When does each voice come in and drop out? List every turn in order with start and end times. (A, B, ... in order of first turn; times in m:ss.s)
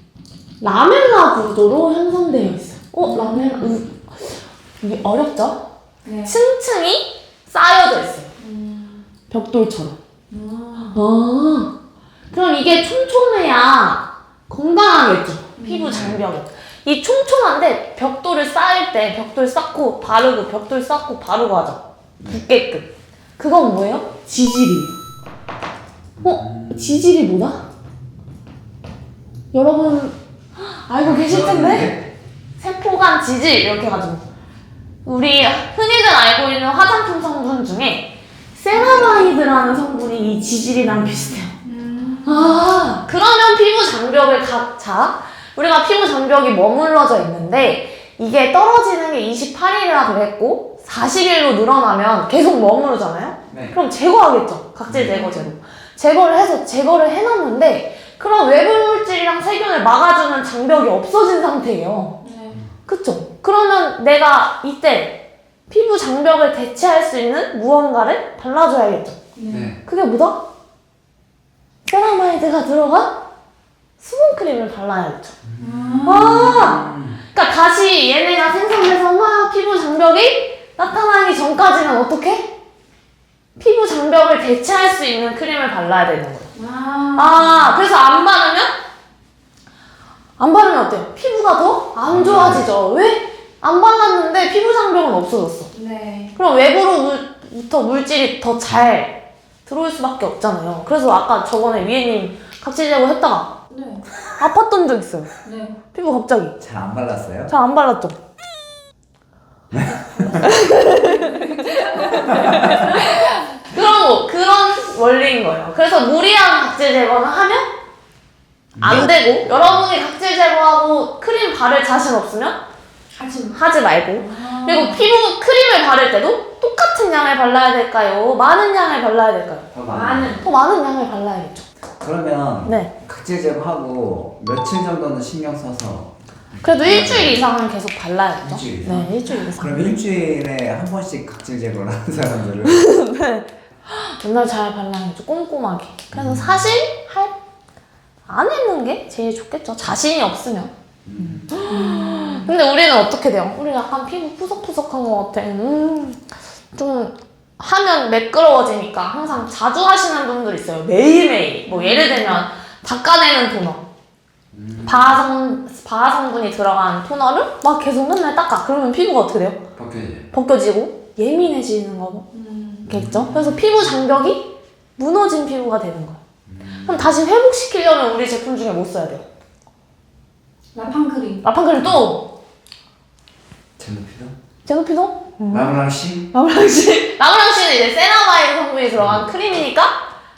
0:00.6-0:04.0 A
0:03.0-0:03.8 B
0:04.8-0:05.7 A
0:06.0-0:06.4 B
0:06.2-0:08.3 A
0:08.4-0:09.1 B
0:09.3-0:10.0 A
0:10.3-0:11.0 B
0:10.9-0:11.7 A
0:12.3-0:24.9 A
0:15.6-0:16.1 B
0:15.9-0:16.2 C
0:26.2-0:27.0 C
0:26.2-0:27.6 A
0:29.5-0:32.0 A
0:31.0-0:32.1 C
0:32.6-0:34.2 A
0:35.0-0:41.5 A
0:38.7-0:39.3 B
0:41.6-0:42.6 B
0:42.2-1:02.2 A
0:53.5-0:53.8 C
0:54.9-0:55.2 C
0:55.1-0:55.4 B
1:02.2-1:02.6 B
1:02.9-1:09.2 A
1:09.4-1:09.7 B
1:09.5-1:09.8 C
1:09.8-1:10.4 A
1:11.8-1:13.2 A
1:14.0-1:15.4 A
1:15.4-1:17.2 C
1:15.6-1:16.7 B
1:16.0-1:22.5 A
1:23.6-1:26.5 A
1:26.6-1:27.8 B
1:27.1-1:28.7 A
1:30.4-1:35.7 A
1:32.1-1:32.7 C
1:35.7-1:36.3 B
1:36.4-1:43.5 A
1:43.7-1:44.1 B
1:44.4-1:45.3 A
1:45.4-1:45.8 B
1:45.9-1:46.6 A
1:46.6-1:47.5 C
1:47.5-1:48.2 A
1:49.7-1:50.5 C
1:50.3-1:57.7 A
1:50.9-1:52.8 B
1:58.8-1:59.8 C
1:58.8-2:02.6 A
2:03.1-2:03.6 B
2:03.6-2:09.7 A
2:04.1-2:05.1 B
2:09.7-2:10.4 C
2:09.9-2:10.4 B
2:10.4-2:11.7 A
2:12.0-2:17.4 C
2:12.6-2:12.9 A
2:16.6-2:20.0 A
2:18.4-2:22.8 C
2:22.6-2:27.3 A
2:26.1-2:26.7 C
2:28.3-2:36.2 A
2:31.1-2:31.6 C
2:31.6-2:32.5 B
2:36.7-2:43.8 A
2:41.7-2:42.4 B
2:44.5-2:45.2 C
2:44.8-2:49.6 A
2:49.8-2:50.3 C
2:50.3-2:52.2 A
2:52.3-2:52.9 B
2:52.9-2:53.8 C
2:52.9-2:56.2 A
2:56.5-2:57.2 C
2:56.8-2:59.2 A
3:00.7-3:01.4 B
3:01.4-3:02.3 A
3:03.8-3:04.4 C
3:04.7-3:05.8 A
3:05.5-3:06.3 C
3:06.3-3:10.0 A
3:09.0-3:09.2 C